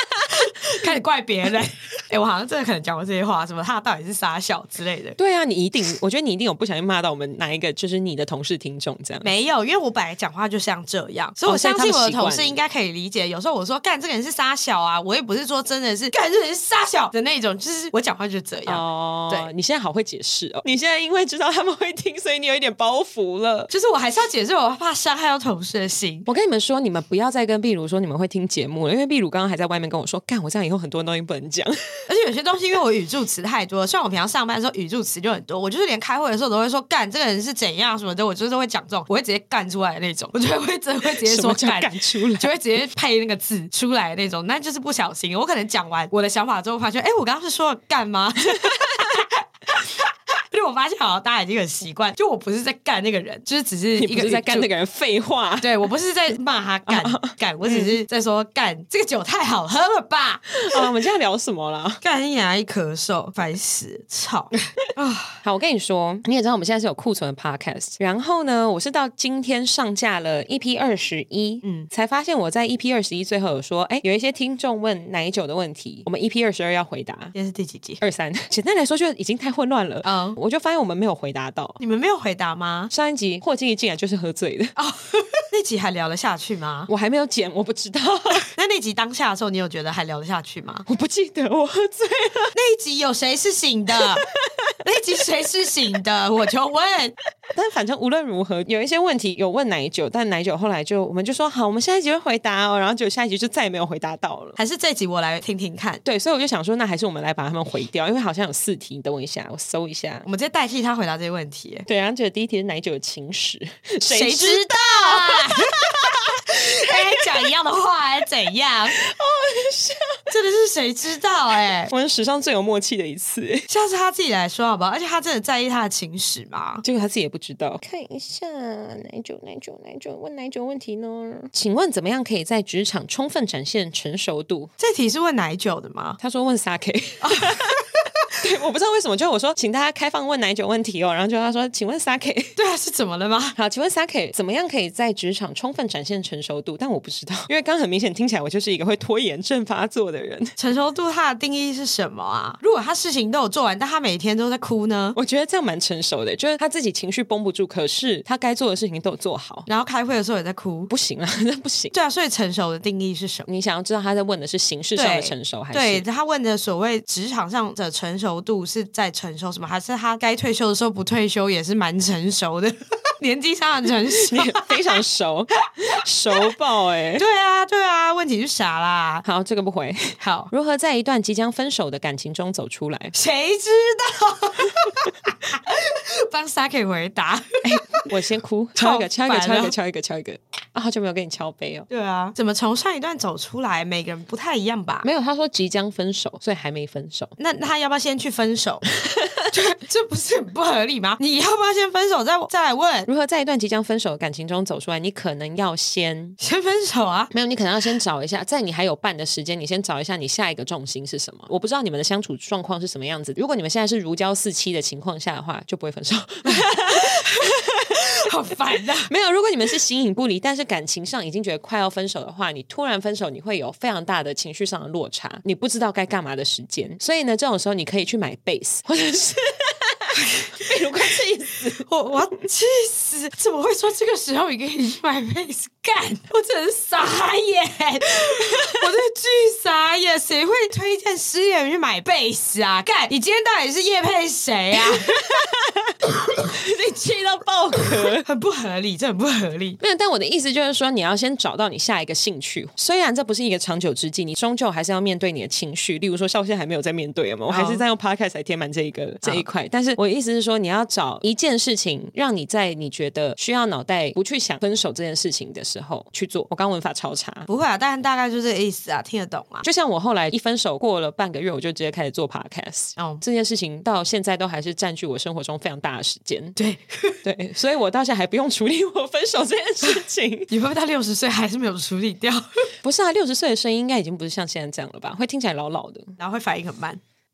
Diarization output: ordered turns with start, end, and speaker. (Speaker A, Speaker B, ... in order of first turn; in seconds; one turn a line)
Speaker A: 0.2-5.2
Speaker B: 5.2-9.3
Speaker A: 9.2-19.5
Speaker B: 11.4-12.6
Speaker B: 18.7-23.7
Speaker A: 23.7-26.3
Speaker B: 26.2-32.0
Speaker A: 32.1-54.7
Speaker B: 41.2-42.5
Speaker B: 54.0-55.7
Speaker A: 55.6-60.9
Speaker B: 56.9-58.0
Speaker B: 60.6-62.0
Speaker A: 62.0-65.4
Speaker B: 65.4-77.3
Speaker A: 71.6-71.9
Speaker A: 77.3-78.0
Speaker B: 78.0-81.8
Speaker A: 80.0-80.4
Speaker A: 81.8-82.9
Speaker B: 82.9-84.7
Speaker A: 84.8-86.9
Speaker B: 86.9-88.5
Speaker A: 88.4-90.8
Speaker B: 90.8-92.5
Speaker A: 92.5-94.2
Speaker B: 94.2-94.8
Speaker A: 94.8-97.1
Speaker B: 97.5-104.6
Speaker A: 104.6-106.0
Speaker B: 106.0-110.3
Speaker A: 110.2-111.8
Speaker B: 111.9-117.2
Speaker A: 114.0-115.7
Speaker A: 116.5-119.0
Speaker B: 119.0-120.2
Speaker A: 120.3-121.9
Speaker B: 121.9-123.7
Speaker A: 123.7-126.8
Speaker B: 126.8-134.7
Speaker A: 134.8-136.2
Speaker B: 136.2-142.6
Speaker A: 137.2-137.5
Speaker A: 142.6-143.6
Speaker B: 143.6-150.5
Speaker A: 150.6-155.2
Speaker B: 155.2-159.7
Speaker A: 159.7-160.9
Speaker B: 160.9-161.9
Speaker A: 161.9-163.5
Speaker B: 163.5-166.0
Speaker A: 164.9-174.8
Speaker B: 174.2-177.2
Speaker A: 177.2-179.2
Speaker B: 179.2-183.1
Speaker A: 180.2-180.5
Speaker A: 183.1-188.0
Speaker B: 187.6-191.9
Speaker A: 188.8-189.8
Speaker A: 191.9-195.1
Speaker B: 195.0-197.3
Speaker A: 197.4-198.8
Speaker A: 199.5-203.1
Speaker B: 203.1-206.4
Speaker A: 206.4-207.3
Speaker B: 207.3-217.6
Speaker A: 216.5-219.1
Speaker B: 219.1-231.9
Speaker A: 230.2-230.7
Speaker A: 231.8-245.2
Speaker B: 238.3-238.8
Speaker B: 245.1-248.2
Speaker A: 248.0-249.8
Speaker B: 249.8-267.5
Speaker A: 257.5-257.8
Speaker A: 267.5-269.6
Speaker B: 269.6-276.6
Speaker A: 273.0-273.2
Speaker A: 276.6-277.2
Speaker B: 277.2-280.5
Speaker A: 280.5-282.5
Speaker B: 282.8-286.1
Speaker A: 286.2-287.0